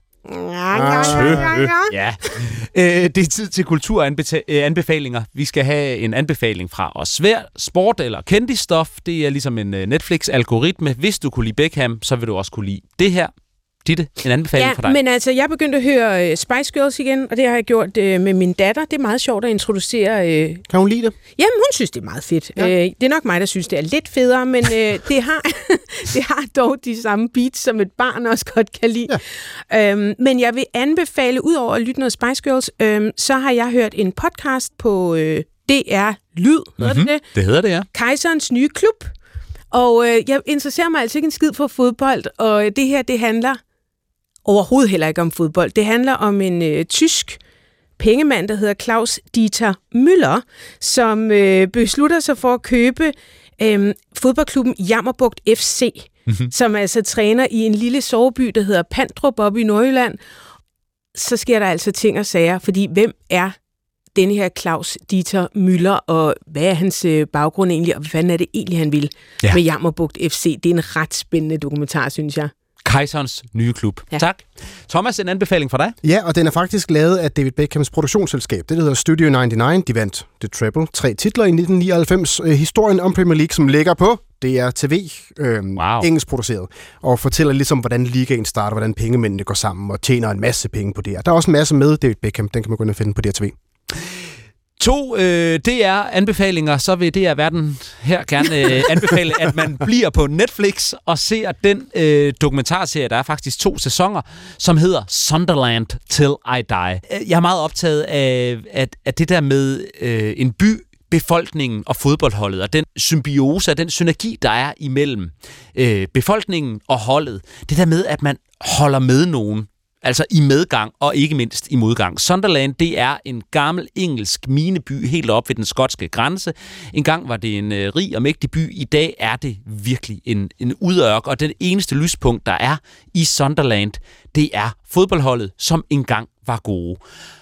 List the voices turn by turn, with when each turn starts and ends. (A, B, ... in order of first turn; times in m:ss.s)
0:00.3-0:01.9 A
0:00.7-0:01.6 B
0:01.0-0:13.3 C
0:13.8-0:15.0 C
0:14.5-0:20.6 A
0:20.7-0:21.1 B
0:21.4-0:29.2 A
0:29.7-0:37.2 A
0:36.8-0:37.9 C
0:37.9-0:39.1 A
0:39.7-0:43.6 A
0:44.4-0:47.4 A
0:48.0-1:00.2 A
1:01.1-1:03.6 A
1:04.1-1:12.5 A
1:12.8-1:16.0 C
1:16.0-1:33.6 B
1:25.8-1:26.1 C
1:34.8-2:17.0 C